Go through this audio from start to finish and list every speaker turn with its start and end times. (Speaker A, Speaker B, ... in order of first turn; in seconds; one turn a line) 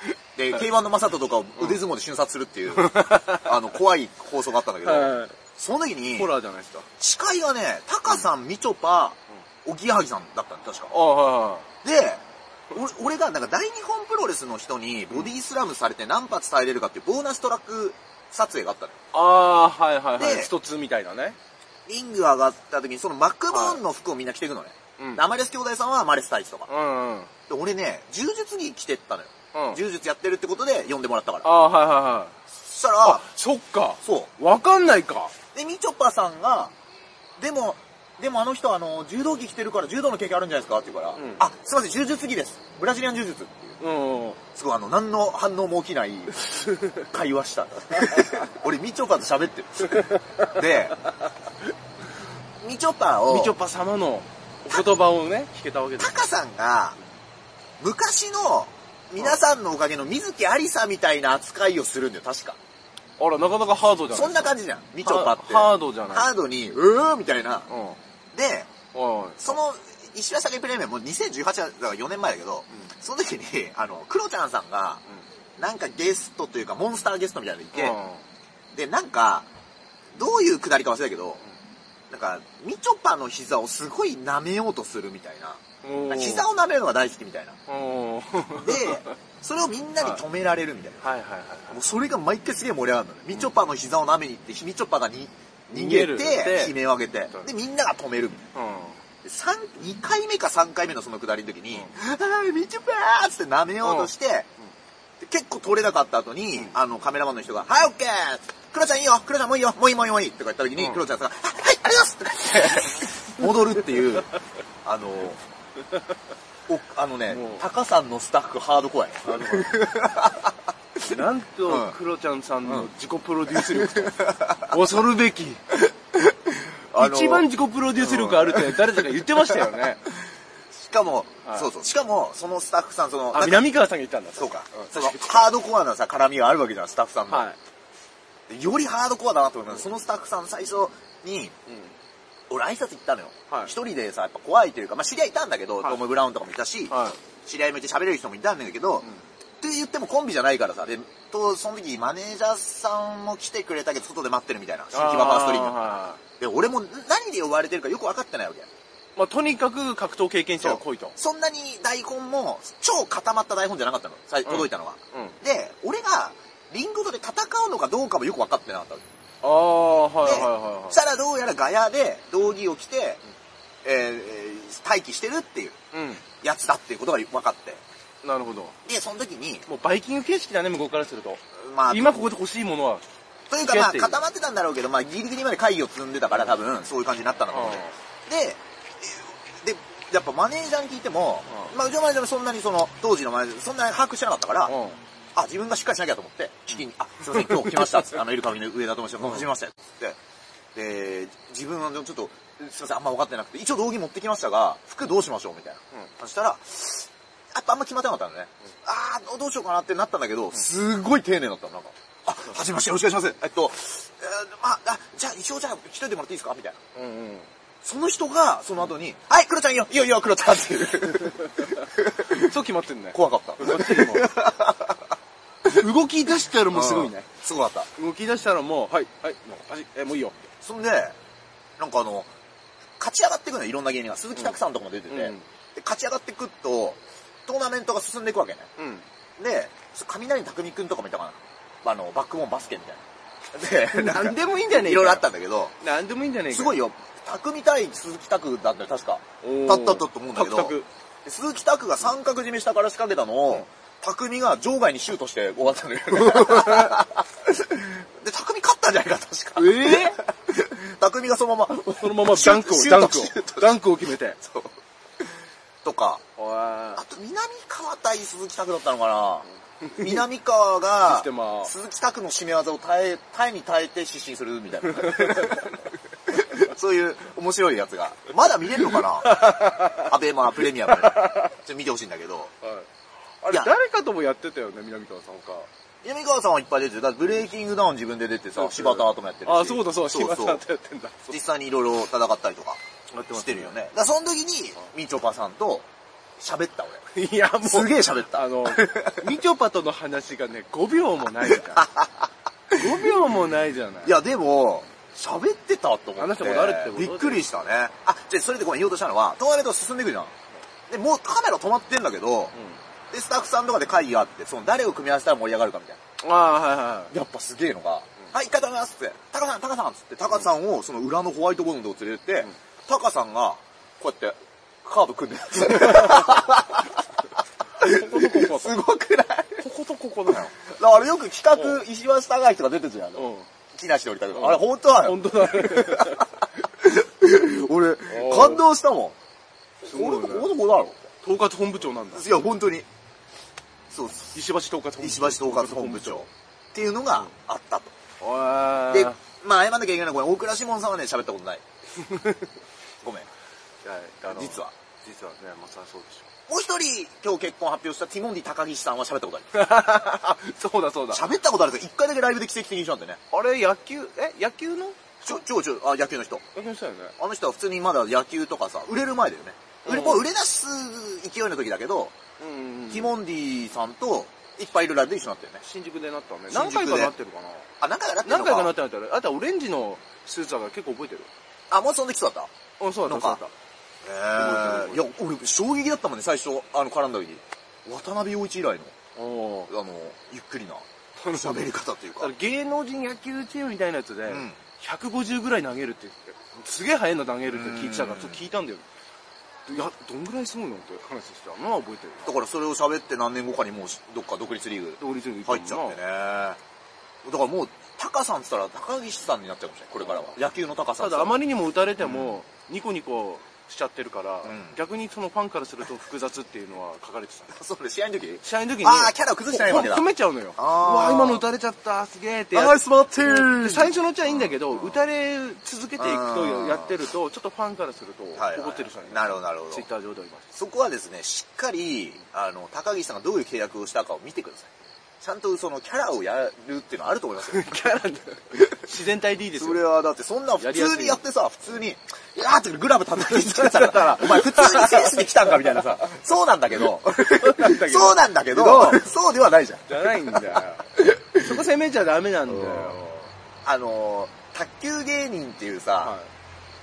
Speaker A: 0.3-6.3
Speaker B: 2.7-3.6
Speaker B: 4.8-5.3
Speaker B: 6.1-6.9
Speaker A: 7.0-10.9
Speaker B: 10.9-11.7
Speaker A: 11.8-19.0
Speaker B: 19.1-21.4
Speaker A: 20.2-20.5
Speaker A: 21.9-26.7
Speaker B: 23.5-23.8
Speaker B: 26.7-27.3
Speaker A: 27.5-31.5
Speaker B: 29.5-29.8
Speaker B: 31.4-32.4
Speaker A: 32.6-33.3
Speaker B: 33.0-35.3
Speaker A: 34.0-34.3
Speaker A: 35.5-36.7
Speaker A: 37.4-43.8
Speaker B: 41.1-41.4
Speaker B: 43.8-44.4
Speaker A: 44.5-51.0
Speaker B: 46.5-46.9
Speaker B: 49.9-50.5
Speaker A: 52.6-53.5
Speaker B: 53.2-56.2
Speaker A: 56.0-57.0
Speaker A: 57.8-62.6
Speaker B: 63.2-66.3
Speaker A: 64.1-67.7
Speaker B: 67.7-68.0
Speaker A: 68.3-68.7
Speaker B: 68.9-69.6
Speaker A: 69.4-75.0
Speaker A: 75.6-78.0
Speaker B: 77.7-78.2
Speaker A: 78.7-79.5
Speaker A: 80.2-81.4
Speaker A: 82.1-87.6
Speaker B: 85.8-86.5
Speaker B: 87.7-89.1
Speaker A: 88.6-91.0
Speaker B: 91.0-91.8
Speaker A: 91.7-98.4
Speaker B: 95.7-96.8
Speaker B: 98.5-99.0
Speaker A: 99.2-104.5
Speaker B: 103.8-104.1
Speaker A: 105.2-115.4
Speaker B: 110.8-111.0
Speaker A: 116.7-121.1
Speaker B: 117.3-117.7
Speaker B: 119.2-119.9
Speaker B: 121.0-125.6
Speaker A: 121.7-121.9
Speaker A: 123.7-124.7
Speaker A: 126.5-129.6
Speaker B: 126.9-130.0
Speaker A: 130.7-133.7
Speaker B: 133.3-135.5
Speaker A: 134.4-137.5
Speaker B: 137.3-137.6
Speaker A: 138.5-141.5
Speaker B: 141.7-141.9
Speaker A: 142.5-149.1
Speaker B: 146.9-147.2
Speaker A: 149.6-155.8
Speaker B: 154.9-156.2
Speaker A: 156.4-158.7
Speaker B: 159.2-161.2
Speaker A: 160.6-169.0
Speaker B: 164.4-165.4
Speaker B: 169.4-171.0
Speaker A: 170.2-173.2
Speaker A: 173.8-175.8
Speaker B: 175.9-176.2
Speaker A: 176.4-177.8
Speaker B: 178.2-178.8
Speaker A: 178.8-179.7
Speaker B: 179.7-183.0
Speaker A: 181.6-182.3
Speaker A: 183.5-194.7
Speaker B: 183.6-184.2
Speaker B: 187.5-187.9
Speaker B: 191.5-191.7
Speaker B: 194.6-195.0
Speaker A: 195.3-200.2
Speaker A: 200.7-216.8
Speaker B: 216.9-217.5
Speaker A: 217.8-222.5
Speaker B: 222.3-224.3
Speaker A: 223.1-225.1
Speaker B: 225.6-227.3
Speaker A: 226.7-227.9
Speaker B: 227.9-230.4
Speaker A: 230.6-231.2
Speaker A: 231.8-232.3
Speaker A: 233.0-238.7
Speaker B: 235.1-235.4
Speaker B: 238.8-239.0
Speaker A: 239.4-245.7
Speaker B: 243.9-245.2
Speaker B: 245.8-246.8
Speaker A: 246.5-264.8
Speaker B: 249.4-250.9
Speaker B: 256.1-257.0
Speaker B: 259.6-260.2
Speaker B: 261.9-264.4
Speaker A: 265.8-266.2
Speaker B: 266.4-267.0
Speaker A: 266.9-282.5
Speaker B: 269.8-270.2
Speaker B: 271.1-271.7
Speaker B: 274.9-275.7
Speaker B: 278.7-281.5
Speaker B: 282.6-282.9
Speaker B: 283.4-285.7
Speaker A: 286.0-290.6
Speaker B: 288.6-291.4
Speaker A: 291.3-292.8
Speaker B: 293.1-293.7
Speaker A: 293.3-295.9
Speaker A: 296.4-297.1
Speaker B: 297.1-301.9
Speaker A: 297.6-299.2
Speaker A: 301.5-303.1
Speaker B: 302.7-304.1
Speaker A: 304.0-310.3
Speaker B: 306.1-307.5
Speaker A: 310.9-312.5
Speaker B: 312.5-312.8
Speaker A: 313.1-316.0
Speaker B: 316.2-317.1
Speaker A: 317.1-327.0
Speaker A: 327.8-329.6
Speaker B: 327.8-328.8
Speaker B: 329.6-330.5
Speaker A: 330.3-339.2
Speaker B: 331.5-331.8
Speaker B: 333.1-333.5
Speaker B: 334.3-336.3
Speaker B: 338.1-338.6
Speaker A: 339.8-341.1
Speaker B: 339.8-340.5
Speaker B: 341.2-342.3
Speaker A: 342.1-342.9
Speaker A: 343.9-344.3
Speaker B: 344.3-346.3
Speaker A: 345.0-347.9
Speaker B: 348.2-349.2
Speaker A: 348.9-351.6
Speaker B: 352.0-352.5
Speaker A: 353.0-353.3
Speaker B: 353.8-356.3
Speaker A: 354.3-354.7
Speaker A: 356.5-359.7
Speaker B: 359.5-361.2
Speaker A: 361.1-363.2
Speaker B: 363.3-365.4
Speaker A: 365.2-366.4
Speaker B: 366.5-367.1
Speaker A: 367.2-372.1
Speaker B: 369.8-370.2
Speaker B: 372.4-373.1
Speaker A: 372.9-375.6
Speaker B: 375.6-377.7
Speaker A: 376.5-377.1
Speaker A: 377.8-378.7
Speaker B: 378.2-381.3
Speaker A: 381.7-382.5
Speaker B: 382.8-383.5
Speaker A: 383.1-383.4
Speaker A: 384.0-388.9
Speaker B: 384.3-385.0
Speaker B: 389.1-389.7
Speaker A: 389.7-392.3
Speaker B: 391.2-391.6
Speaker B: 392.2-398.8
Speaker A: 394.3-394.6
Speaker A: 397.4-398.4
Speaker B: 399.6-402.3
Speaker A: 402.2-406.6
Speaker B: 405.0-406.0
Speaker A: 407.2-411.4
Speaker B: 410.0-410.3
Speaker B: 411.0-417.5
Speaker A: 412.0-412.3
Speaker A: 414.4-414.8
Speaker A: 417.5-421.4
Speaker B: 418.4-430.5
Speaker A: 422.5-425.0
Speaker A: 426.0-426.9
Speaker A: 428.4-429.9
Speaker A: 430.5-434.7
Speaker A: 435.2-437.8
Speaker B: 437.4-439.8
Speaker A: 439.6-451.5
Speaker B: 440.6-441.2
Speaker B: 443.2-445.8
Speaker B: 447.2-449.0
Speaker B: 449.9-453.3
Speaker A: 452.5-453.0
Speaker A: 453.6-456.1
Speaker B: 456.0-456.3